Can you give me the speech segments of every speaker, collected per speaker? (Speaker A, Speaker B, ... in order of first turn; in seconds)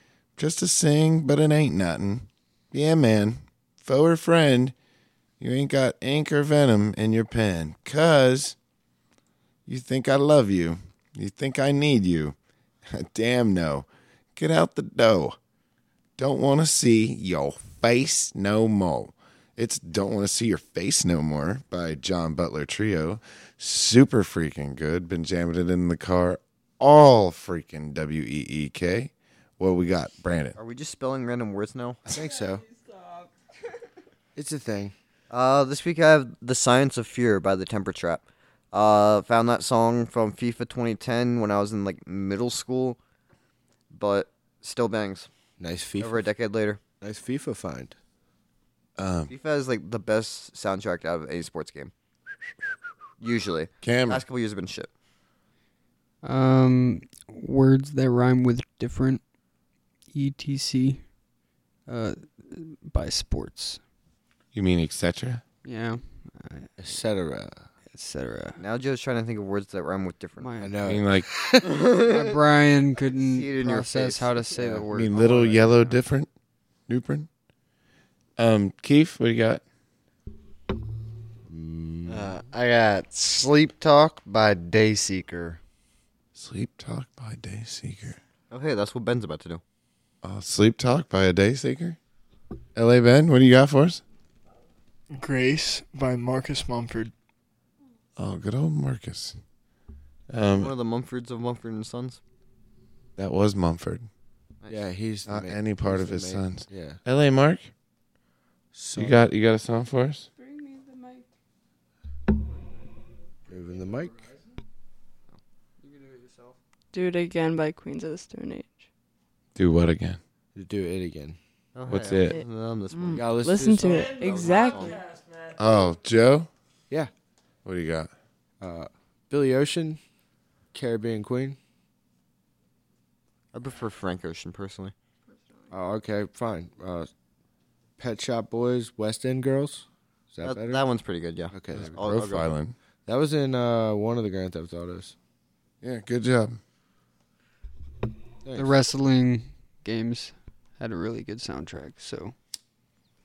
Speaker A: 0.4-4.8, 5.4-8.6, 9.7-15.4, 16.2-30.6, 49.0-49.3, 53.8-54.2, 64.5-65.4, 70.8-71.3, 74.9-76.3, 76.9-77.3, 78.4-79.6, 86.3-88.2, 90.2-92.0, 92.8-94.0, 98.2-99.4, 100.3-100.7, 103.2-104.1, 105.3-107.7, 109.0-110.3, 119.5-120.2, 121.9-122.4, 125.5-126.5, 127.7-128.1, 141.8-142.8, 145.8-146.6
Speaker B: 30.6-32.0, 35.3-43.0, 43.9-45.3, 46.0-46.8, 49.3-51.9, 53.2-54.9, 68.6-70.5, 71.6-72.4, 73.1-74.4, 88.5-89.6, 100.5-102.2, 104.6-104.9, 121.8-123.2, 124.1-125.1, 133.5-134.9, 140.4-142.5
Speaker C: 32.1-32.7, 34.4-34.9, 45.6-46.2, 47.0-48.0, 66.8-67.7, 70.6-71.7, 74.6-75.7, 81.5-82.4, 104.7-107.0, 108.7-109.2, 113.5-114.3, 120.5-121.4, 123.2-124.3, 128.6-130.0, 130.7-131.6, 135.7-137.1, 138.0-140.8, 141.5-141.9, 143.1-145.2, 148.4-148.8
Speaker D: 56.2-59.2, 60.1-61.0, 61.9-63.8, 65.7-66.7, 67.9-68.6, 70.4-70.8, 71.9-75.8, 115.8-116.5, 148.6-152.4
Speaker E: 82.1-85.6
Speaker F: 95.1-97.1
Speaker G: 116.9-118.8, 122.3-125.0